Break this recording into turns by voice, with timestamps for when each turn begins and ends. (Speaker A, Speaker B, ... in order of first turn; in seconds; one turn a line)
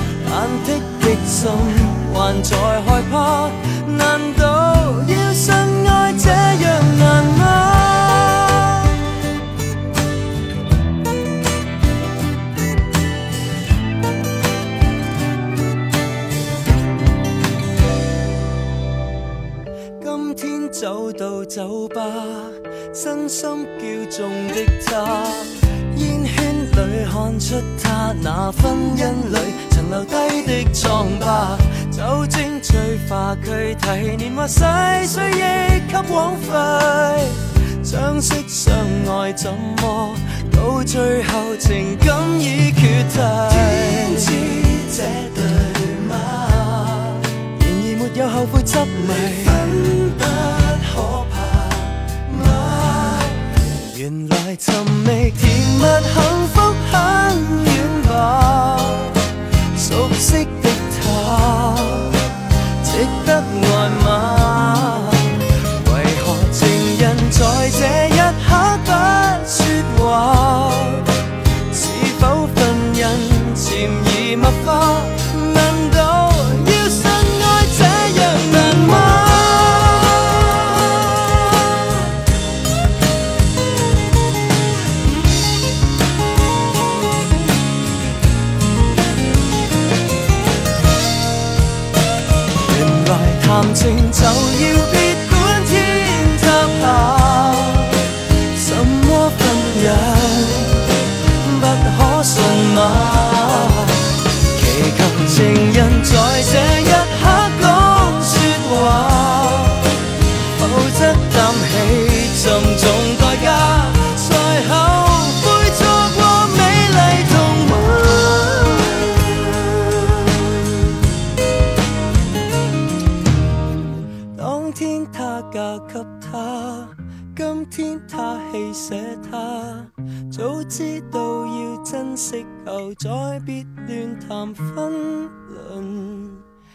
Speaker A: 0.2-8.9
Speaker A: 20.0-62.2
Speaker A: 62.8-71.1
Speaker A: 71.7-82.0
Speaker A: 92.6-110.0
Speaker A: 110.6-120.9
Speaker A: 124.3-136.4